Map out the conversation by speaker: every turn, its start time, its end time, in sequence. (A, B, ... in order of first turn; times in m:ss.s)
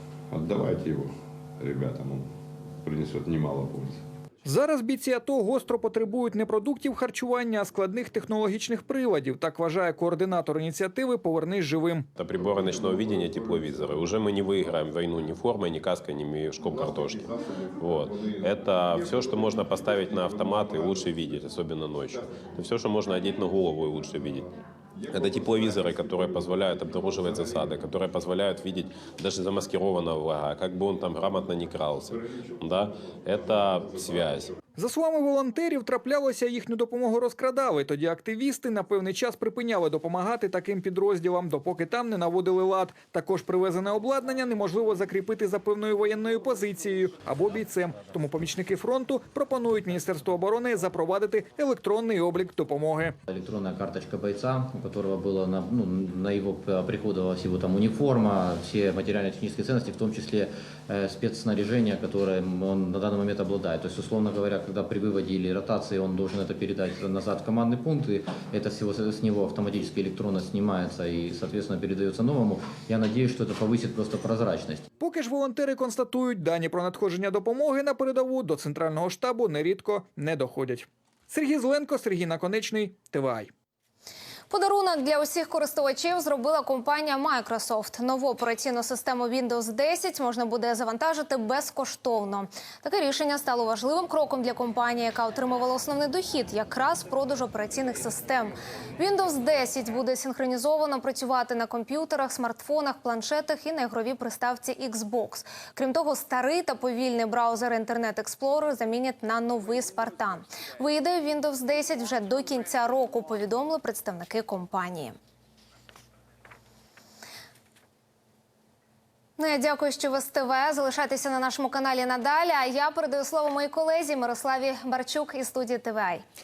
0:00.3-0:02.3 A
0:02.8-0:04.0 A
0:04.5-0:12.1 B
0:12.2-0:24.5 C
0:25.1-0:34.5 C
0:34.8-0:53.1 B
0:53.3-1:14.8 D
1:15.0-1:23.5 B
1:24.5-1:55.2 E
1:59.4-2:06.2 E